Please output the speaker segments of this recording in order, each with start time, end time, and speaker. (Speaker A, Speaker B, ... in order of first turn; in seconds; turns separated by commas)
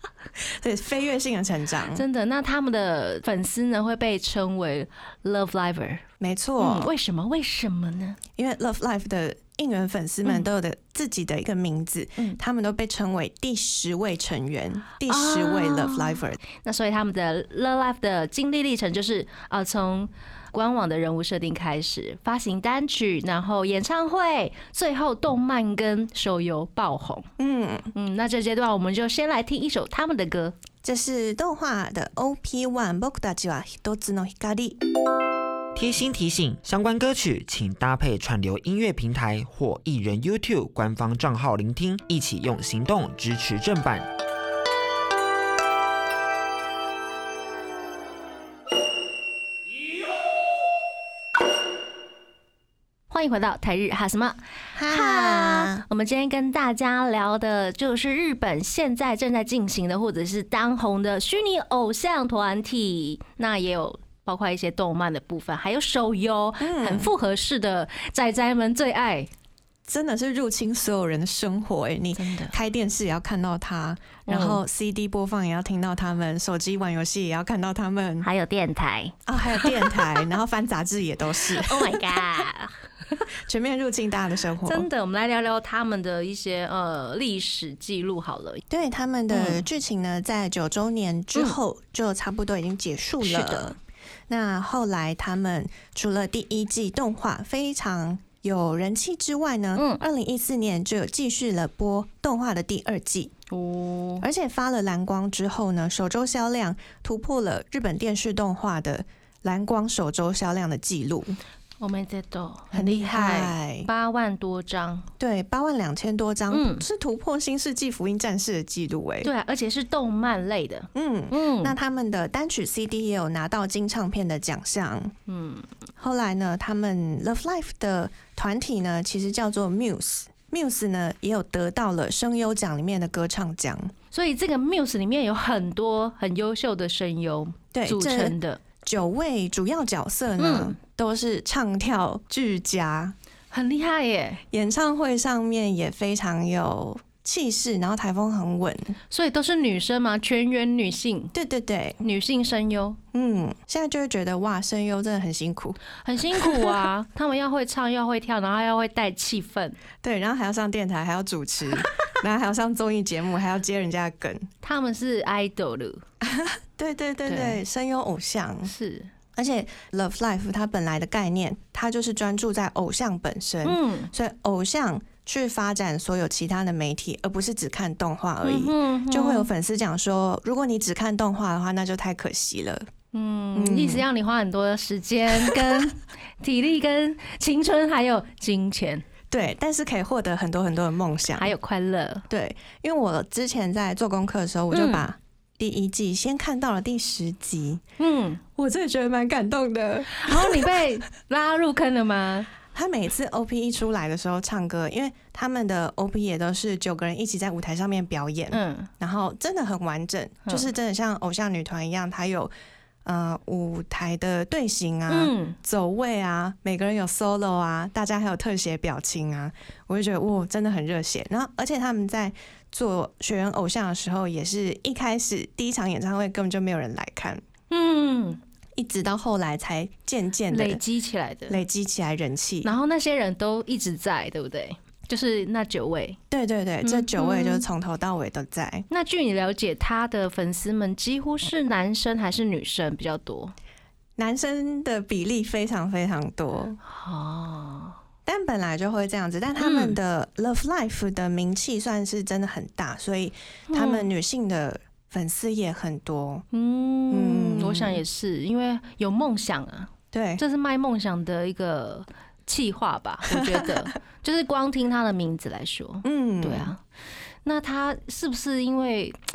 Speaker A: 0.4-2.0, Speaker B: 1.9-6.0, Speaker A: 6.2-6.9, Speaker B: 6.6-8.2, Speaker A: 8.4-16.4, Speaker B: 15.1-27.3, Speaker A: 27.4-27.9, Speaker B: 27.9-30.6, Speaker A: 30.8-34.8, Speaker C: 35.8-44.1, Speaker B: 53.1-69.3, Speaker A: 54.8-55.9, Speaker A: 66.6-67.1, Speaker A: 69.9-78.3, Speaker B: 72.2-72.5, Speaker B: 74.3-74.6, Speaker B: 78.2-80.0, Speaker A: 79.3-82.5, Speaker B: 81.5-83.2, Speaker A: 83.5-84.9, Speaker B: 84.7-88.6, Speaker A: 88.7-93.8, Speaker B: 89.3-89.6, Speaker B: 93.2-93.8, Speaker A: 94.3-103.3, Speaker B: 99.8-100.0, Speaker B: 103.5-104.3, Speaker A: 104.2-111.4, Speaker B: 111.8-115.1, Speaker A: 112.7-113.9, Speaker A: 115.2-119.3, Speaker B: 116.5-116.8, Speaker B: 119.2-121.8, Speaker A: 120.9-125.2, Speaker B: 125.3-125.7, Speaker A: 126.0-133.9, Speaker B: 134.1-138.6, Speaker A: 137.7-143.2, Speaker B: 140.4-140.8, Speaker B: 143.5-144.4, Speaker A: 144.5-149.0, Speaker B: 149.1-151.3, Speaker A: 151.3-152.0, Speaker B: 152.0-153.0, Speaker A: 153.1-155.8, Speaker B: 156.0-159.8, Speaker A: 156.4-156.8, Speaker A: 160.0-164.5, Speaker B: 164.6-166.0, Speaker A: 166.2-168.7, Speaker B: 167.3-167.6, Speaker B: 168.7-169.1, Speaker A: 169.3-182.9, Speaker B: 173.6-174.1, Speaker B: 178.4-179.5, Speaker B: 183.1-189.1, Speaker A: 183.6-184.1, Speaker A: 185.4-185.8, Speaker A: 189.3-191.5, Speaker B: 191.4-192.3, Speaker A: 192.3-197.8, Speaker B: 194.7-195.1, Speaker B: 198.0-198.4, Speaker A: 198.6-200.8, Speaker B: 200.1-202.5, Speaker A: 202.7-212.5, Speaker B: 208.5-208.9, Speaker A: 213.1-227.4, Speaker B: 215.1-215.6, Speaker B: 227.7-228.4, Speaker A: 228.8-230.8, Speaker B: 230.5-231.6, Speaker A: 231.5-232.7, Speaker B: 232.6-236.2, Speaker A: 236.3-238.9, Speaker B: 236.8-237.7, Speaker B: 238.9-243.5, Speaker A: 244.2-246.8, Speaker B: 246.8-248.0, Speaker A: 248.3-256.4, Speaker B: 249.6-250.0, Speaker B: 253.7-254.1, Speaker B: 256.5-266.8, Speaker A: 257.1-258.0, Speaker A: 260.1-260.4, Speaker A: 263.3-263.9, Speaker A: 266.0-266.7, Speaker B: 267.4-269.2